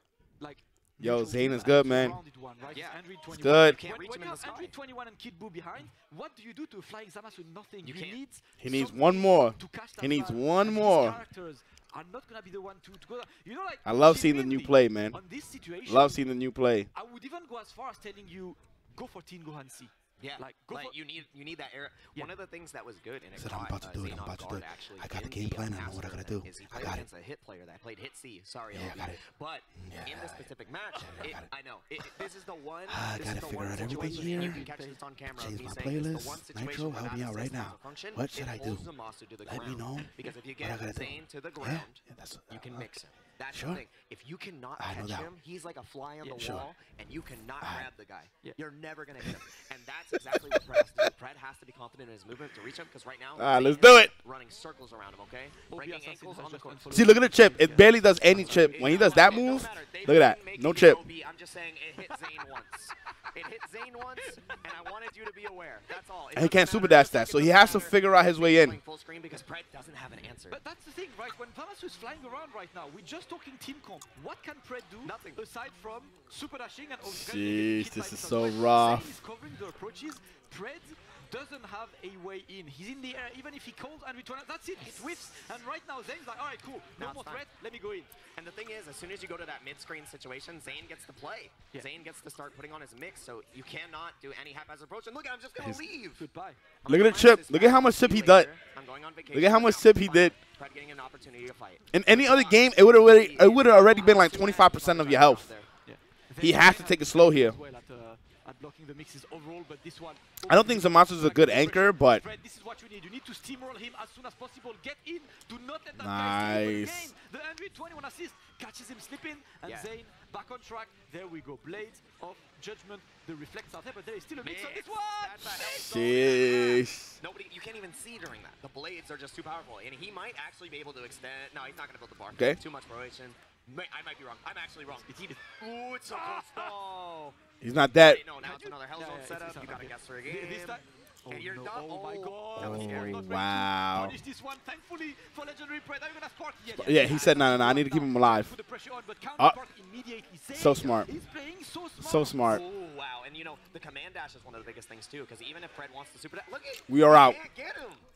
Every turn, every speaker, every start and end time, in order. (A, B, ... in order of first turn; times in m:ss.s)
0:00.4-0:16.2 A
0:01.0-0:02.2 B
0:02.6-0:04.7 C
0:03.3-0:03.8 B
0:07.8-0:08.2 C
0:08.6-0:11.2 B
0:13.9-0:15.2 B
0:15.9-0:16.9 B
0:16.9-0:21.0 A
0:20.2-0:57.0 C
0:23.4-0:27.0 B
0:28.7-0:29.2 B
0:29.8-0:31.4 B
0:32.9-0:34.6 B
0:33.8-0:35.0 A
0:35.4-0:38.8 B
0:39.5-0:42.9 B
0:43.5-0:43.8 B
0:44.8-0:45.3 B
0:46.2-0:46.5 A
0:46.3-0:46.6 B
0:50.3-0:50.8 B
0:53.4-0:54.1 B
0:55.7-0:58.7 A
0:56.9-1:01.0 B
0:58.5-1:10.6 C
1:04.2-1:04.6 A
1:06.4-1:08.8 B
1:10.5-1:28.2 A
1:15.0-1:15.4 C
1:17.0-1:19.2 B
1:24.8-1:25.2 C
1:27.0-1:27.5 C
1:28.2-1:36.3 C
1:36.2-1:36.6 A
1:36.8-1:45.7 C
1:36.9-1:38.5 B
1:39.3-1:40.3 B
1:41.9-1:45.5 B
1:45.8-2:06.0 A
1:46.4-1:47.6 B
1:50.5-1:52.2 B
1:56.0-1:57.1 B
1:59.6-1:59.9 C
2:04.4-2:17.4 C
2:05.7-2:07.2 B
2:12.3-2:12.6 B
2:15.1-2:15.4 A
2:16.1-2:16.7 A
2:17.6-2:18.2 B
2:18.0-2:23.3 C
2:18.4-2:32.4 A
2:22.6-2:24.2 B
2:26.8-2:28.5 B
2:30.5-2:31.1 B
2:32.0-2:32.6 B
2:32.4-2:38.0 C
2:36.9-2:37.4 B